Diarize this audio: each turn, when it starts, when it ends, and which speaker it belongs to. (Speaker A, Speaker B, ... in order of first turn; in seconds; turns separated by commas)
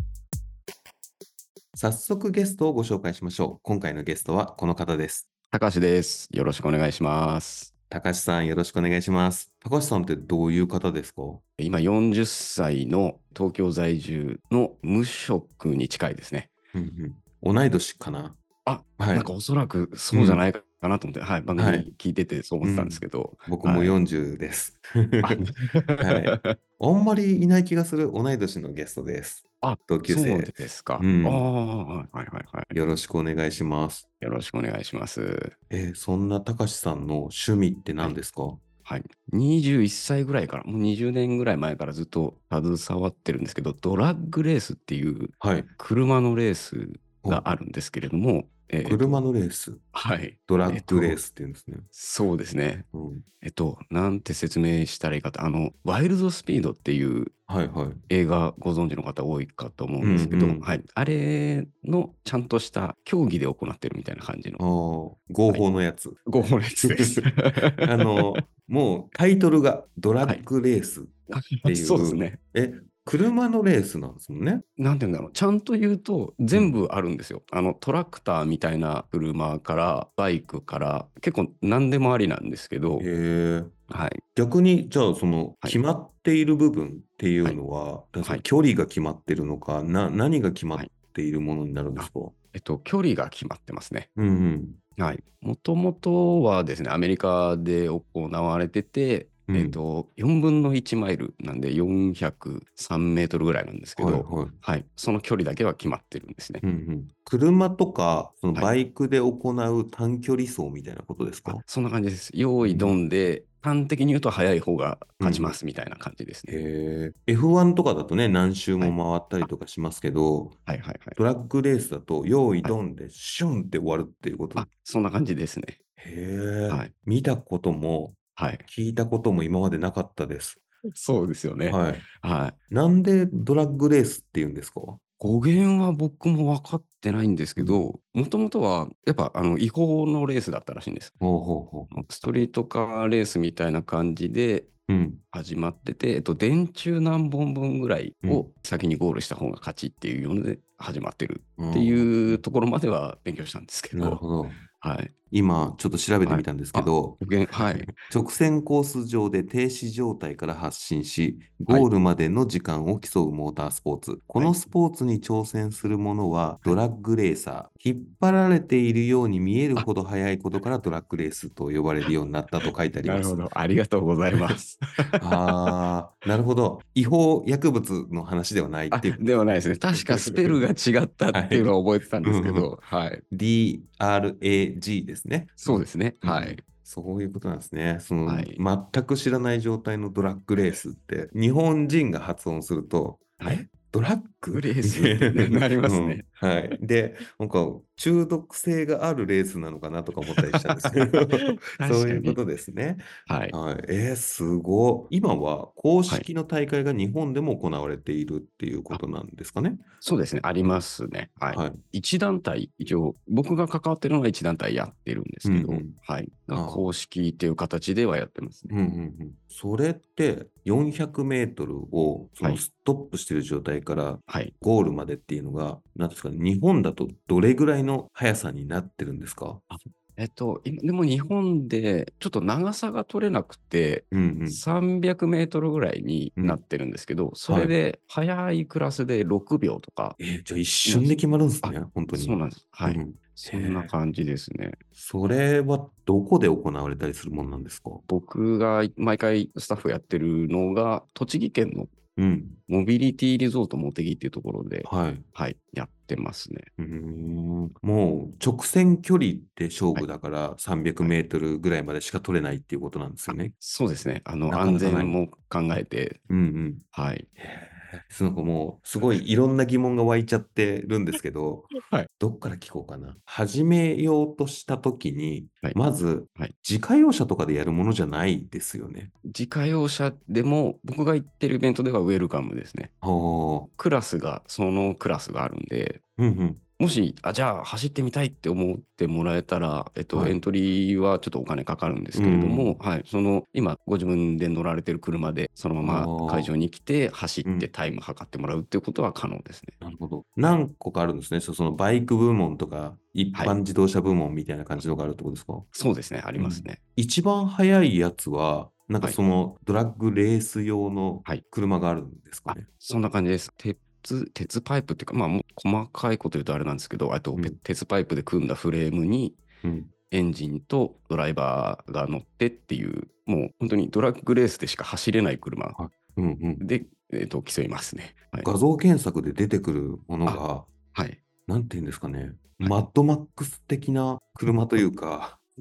Speaker A: 1.8-5.3, Speaker B: 5.5-7.7, Speaker A: 7.9-11.4, Speaker B: 11.6-16.5, Speaker A: 16.7-18.4, Speaker B: 18.7-23.9, Speaker A: 19.0-19.3, Speaker A: 20.1-20.4, Speaker A: 21.6-21.9, Speaker A: 22.6-31.5, Speaker B: 25.3-26.6, Speaker B: 29.6-32.8, Speaker A: 32.7-34.1, Speaker B: 34.2-35.5, Speaker A: 35.7-38.6, Speaker B: 38.9-49.2, Speaker A: 45.4-45.7, Speaker A: 48.8-49.8, Speaker B: 49.9-51.2, Speaker A: 50.5-51.9, Speaker B: 51.9-52.9, Speaker A: 52.9-53.2, Speaker B: 53.4-57.4, Speaker A: 57.5-58.0, Speaker B: 58.1-64.6, Speaker A: 60.0-60.7, Speaker A: 64.6-66.3, Speaker B: 66.3-68.4, Speaker A: 66.8-74.6, Speaker B: 71.3-72.4, Speaker B: 74.8-83.1, Speaker A: 76.5-76.8, Speaker A: 83.0-83.8, Speaker B: 83.9-84.2, Speaker A: 84.3-92.3, Speaker B: 92.0-94.1, Speaker A: 94.2-94.8, Speaker B: 95.0-106.6, Speaker A: 99.5-99.8, Speaker A: 104.0-104.6, Speaker A: 106.6-111.6, Speaker B: 111.5-116.6, Speaker A: 112.6-113.0, Speaker A: 115.2-115.6, Speaker A: 116.5-120.6, Speaker B: 118.8-119.5, Speaker B: 120.7-121.2, Speaker A: 121.2-124.7, Speaker B: 124.6-125.8, Speaker A: 126.0-130.6, Speaker B: 128.4-128.7, Speaker B: 130.9-132.6, Speaker A: 131.7-132.1, Speaker A: 132.7-135.0, Speaker B: 135.2-141.2, Speaker A: 137.6-137.9, Speaker A: 141.2-141.9, Speaker B: 141.9-144.7, Speaker A: 144.9-145.2, Speaker B: 145.3-154.2, Speaker A: 151.6-152.4, Speaker A: 153.9-154.7, Speaker B: 154.8-155.1, Speaker A: 155.3-173.4, Speaker B: 156.2-157.9, Speaker B: 164.4-164.7, Speaker B: 172.6-175.7, Speaker A: 174.3-174.6, Speaker A: 175.2-179.2, Speaker B: 178.9-183.2, Speaker A: 179.9-180.6, Speaker A: 181.3-182.7, Speaker A: 183.3-209.8, Speaker B: 185.6-186.6, Speaker B: 188.3-188.6, Speaker B: 193.4-193.7, Speaker B: 194.5-196.3, Speaker B: 200.3-201.2, Speaker B: 201.7-202.4, Speaker B: 203.3-203.6, Speaker B: 210.0-218.8, Speaker A: 211.5-211.8, Speaker A: 215.4-216.0, Speaker A: 216.5-216.9, Speaker A: 218.7-229.7, Speaker B: 224.3-224.5, Speaker B: 229.7-240.2, Speaker A: 234.1-234.6, Speaker A: 237.5-237.7, Speaker A: 240.2-243.9, Speaker B: 240.8-244.8, Speaker A: 245.0-248.0, Speaker B: 248.1-251.9, Speaker A: 252.2-252.6, Speaker B: 252.7-256.7, Speaker A: 254.8-255.2, Speaker A: 256.8-263.5, Speaker B: 263.3-266.2, Speaker A: 264.5-265.2, Speaker A: 266.3-266.8, Speaker B: 266.9-267.3, Speaker A: 267.4-279.1, Speaker B: 271.7-272.1, Speaker B: 279.2-282.9, Speaker A: 283.0-283.7, Speaker B: 283.8-286.0, Speaker A: 286.2-286.6, Speaker B: 286.8-299.8, Speaker A: 290.1-290.4, Speaker A: 292.1-292.8, Speaker A: 295.8-296.5, Speaker A: 299.8-305.7, Speaker B: 303.3-303.6, Speaker B: 305.7-306.8, Speaker A: 306.4-312.7, Speaker B: 312.5-319.4, Speaker A: 319.6-319.9, Speaker B: 320.1-325.8, Speaker A: 325.8-326.6, Speaker B: 326.6-328.5, Speaker A: 328.4-330.7, Speaker B: 330.9-331.2, Speaker A: 331.5-335.4, Speaker B: 332.6-332.9, Speaker B: 334.5-334.9